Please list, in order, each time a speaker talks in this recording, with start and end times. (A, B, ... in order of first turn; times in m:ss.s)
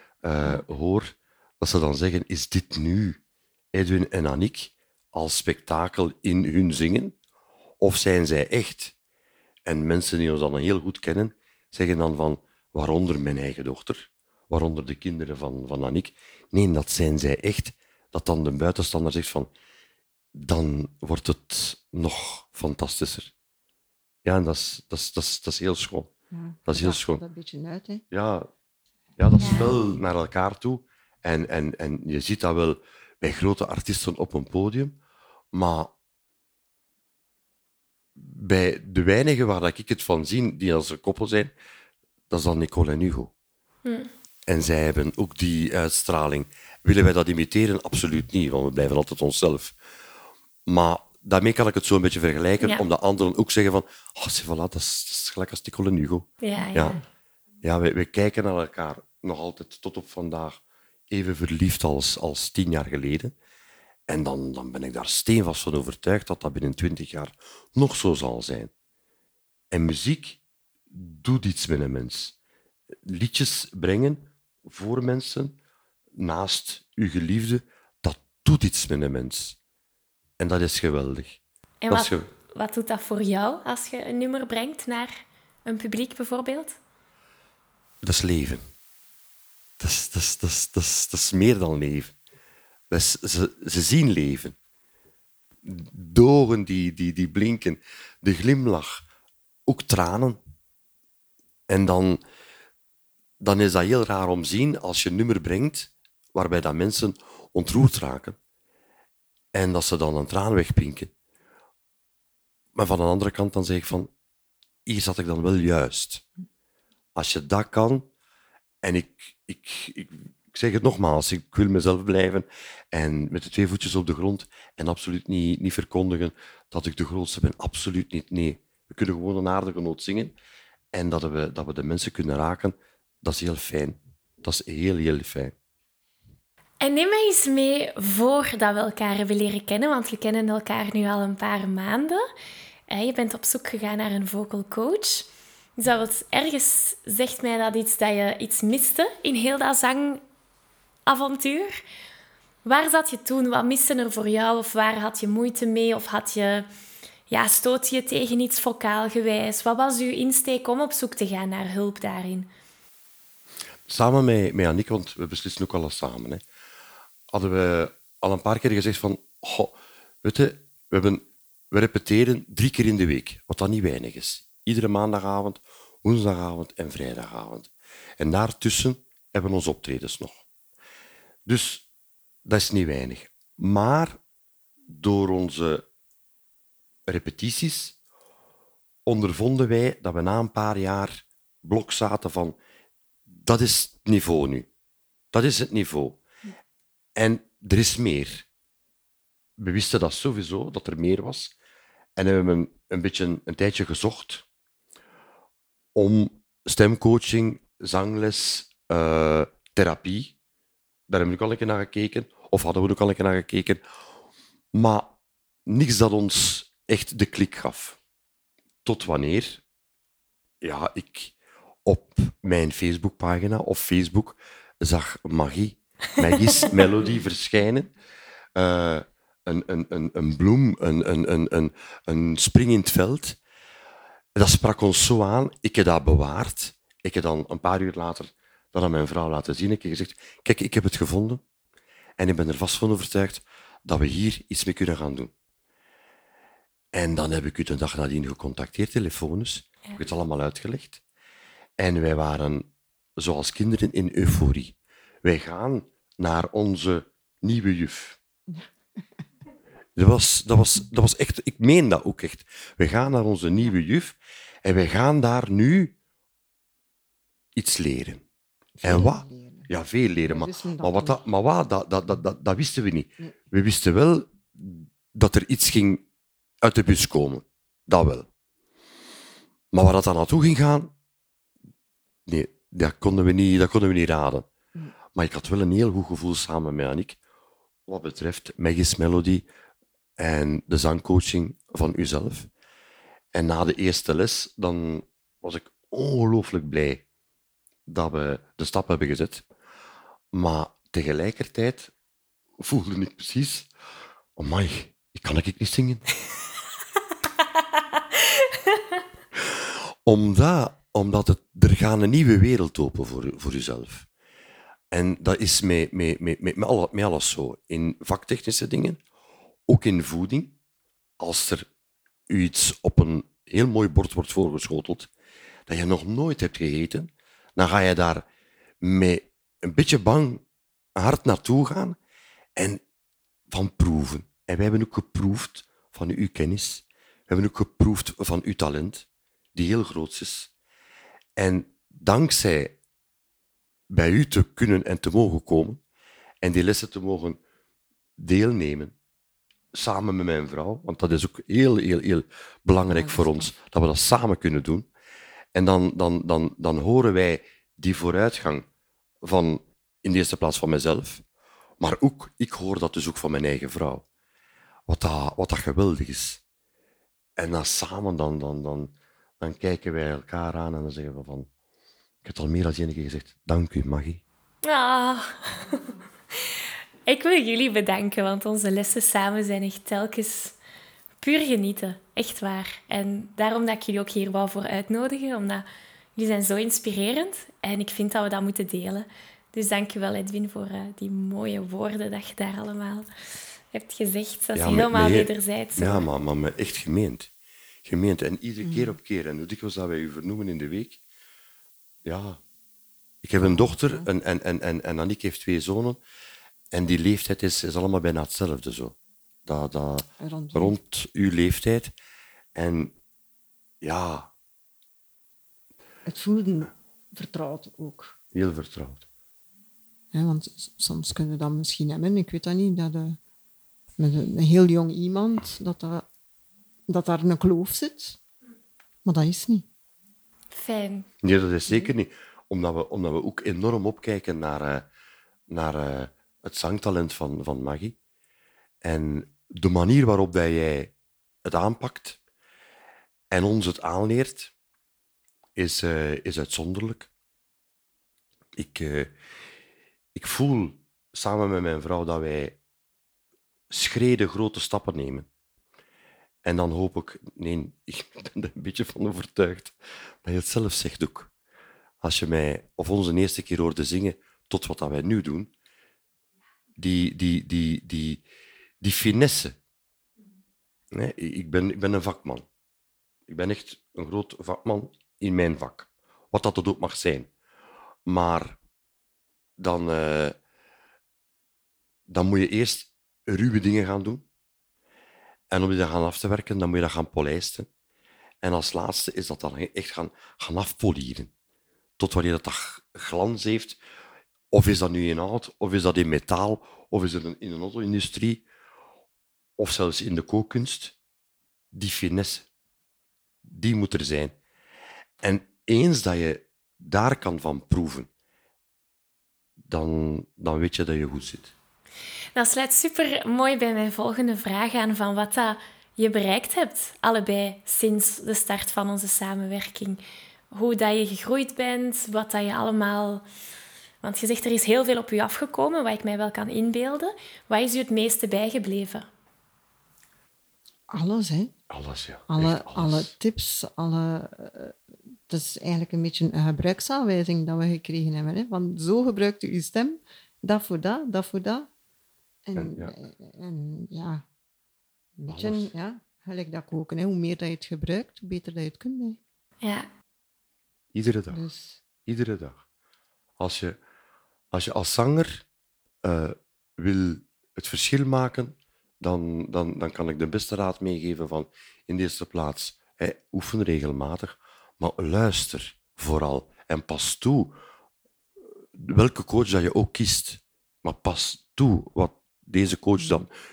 0:00.2-0:03.2 A
0:03.7-0:07.2 A
0:07.8-0:08.9 A
0:09.6-0:19.5 A
0:20.4-0:23.3 A
0:24.2-0:26.1 A
0:26.3-0:28.0 B
0:26.7-0:27.2 A
0:28.1-0:28.5 A
0:29.2-0:35.0 A
0:29.4-0:29.7 C
0:35.5-0:35.9 A
0:38.2-0:41.5 A
0:42.3-0:43.3 A
0:43.8-0:44.1 C
0:44.5-0:49.8 A
0:50.7-0:57.0 A
0:56.4-0:57.0 C
0:57.6-1:03.3 A
1:04.1-1:08.7 A
1:09.7-1:10.4 A
1:10.9-1:12.4 A
1:13.0-1:15.6 A
1:16.2-1:19.6 A
1:20.4-1:22.3 A
1:21.8-1:25.1 C
1:25.6-1:26.8 C
1:28.0-1:28.6 A
1:29.8-1:32.2 A
1:32.9-1:34.6 A
1:35.6-1:39.0 A
1:39.7-1:40.4 A
1:41.7-1:42.2 A
1:43.4-1:48.4 A
1:49.5-1:51.1 A
1:52.8-1:54.1 A
1:54.9-1:56.2 A
1:57.2-1:58.1 A
1:58.8-2:10.3 A
2:10.9-2:15.5 A
2:16.8-2:22.2 C
2:22.9-2:30.2 C
2:31.1-2:31.7 C
2:32.6-2:36.7 C
2:37.3-2:42.5 C
2:43.9-2:46.4 A
2:47.3-3:00.4 A
3:01.5-3:01.9 A
3:02.4-3:04.2 A
3:04.9-3:05.8 A
3:07.1-3:08.0 A
3:09.1-3:12.6 A
3:13.4-3:14.7 A
3:15.3-3:16.2 A
3:17.2-3:18.5 A
3:19.6-3:21.5 A
3:22.2-3:24.4 A
3:26.0-3:30.3 A
3:31.1-3:33.8 A
3:34.7-3:35.1 A
3:35.7-3:38.0 A
3:38.8-3:39.6 A
3:40.6-3:41.3 A
3:41.9-3:47.9 A
3:48.6-3:53.4 A
3:54.4-4:01.4 A
4:02.2-4:05.3 A
4:06.9-4:11.0 A
4:11.8-4:18.2 A
4:18.5-4:19.0 B
4:20.0-4:25.9 A
4:27.6-4:28.2 A
4:28.8-4:29.7 B
4:28.8-4:36.0 A
4:30.3-4:31.2 B
4:36.6-4:38.3 A
4:39.7-4:40.9 A
4:42.3-4:44.5 A
4:45.2-4:47.2 A
4:47.9-4:49.4 A
4:50.2-4:52.5 A
4:53.3-4:57.0 A
4:57.9-4:59.4 A
5:00.3-5:01.9 A
5:02.6-5:03.7 A
5:04.4-5:06.1 A
5:08.3-5:08.8 C
5:10.0-5:14.1 A
5:14.9-5:19.0 A
5:19.7-5:20.5 A
5:21.2-5:21.7 A
5:22.3-5:25.1 A
5:25.7-5:28.2 A
5:28.8-5:30.4 A
5:31.0-5:32.0 A
5:32.6-5:32.8 A
5:33.5-5:40.5 A
5:41.4-5:42.8 A
5:43.9-5:45.8 A
5:46.4-5:47.4 A
5:48.2-5:48.9 A
5:49.7-5:54.9 A
5:52.9-5:53.5 B
5:55.6-5:58.7 A
5:59.2-6:01.2 A
6:01.8-6:04.0 A
6:04.9-6:06.4 A
6:07.4-6:11.5 A
6:12.2-6:14.2 A
6:14.6-6:15.8 C
6:17.1-6:20.6 C
6:21.2-6:25.6 C
6:26.2-6:33.1 C
6:33.7-6:36.1 C
6:34.6-6:37.3 A
6:37.8-6:41.0 A
6:38.6-6:39.0 B
6:42.0-6:42.4 A
6:43.2-6:46.0 A
6:43.4-6:44.1 B
6:46.7-6:49.0 A
6:49.5-6:51.9 A
6:50.2-6:50.8 B
6:52.6-6:52.9 A
6:53.8-6:54.3 A
6:56.1-6:58.2 B
6:58.3-6:59.0 A
7:00.1-7:03.2 B
7:04.0-7:06.0 B
7:06.9-7:08.2 B
7:09.0-7:09.7 B
7:10.5-7:11.1 C
7:11.2-7:14.9 A
7:15.5-7:18.0 A
7:18.8-7:20.9 A
7:21.4-7:22.2 A
7:23.3-7:24.5 A
7:25.6-7:27.1 A
7:28.6-7:29.1 A
7:30.2-7:32.6 A
7:33.7-7:35.3 A
7:36.4-7:41.3 A
7:42.0-7:45.5 A
7:46.8-7:48.2 A
7:48.8-7:49.6 A
7:50.9-7:52.4 A
7:53.3-7:57.3 A
7:58.1-7:58.6 A
7:59.6-8:00.4 A
8:02.1-8:04.2 A
8:05.5-8:07.7 A
8:08.4-8:11.3 A
8:12.0-8:13.8 A
8:14.5-8:18.4 A
8:19.6-8:21.0 A
8:21.7-8:22.5 A
8:23.4-8:24.4 A
8:25.2-8:28.1 A
8:29.7-8:31.5 A
8:32.4-8:40.0 C
8:40.5-8:43.2 C
8:44.0-8:49.1 C
8:50.9-8:51.5 B
8:51.7-8:53.1 A
8:52.3-9:01.7 B
9:02.5-9:04.2 B
9:02.6-9:02.9 A
9:05.2-9:09.2 B
9:05.3-9:05.7 A
9:10.9-9:11.4 A
9:11.3-9:11.8 B
9:12.1-9:12.6 A
9:13.4-9:13.8 A
9:14.5-9:15.4 A
9:16.0-9:27.5 A
9:28.8-9:33.3 A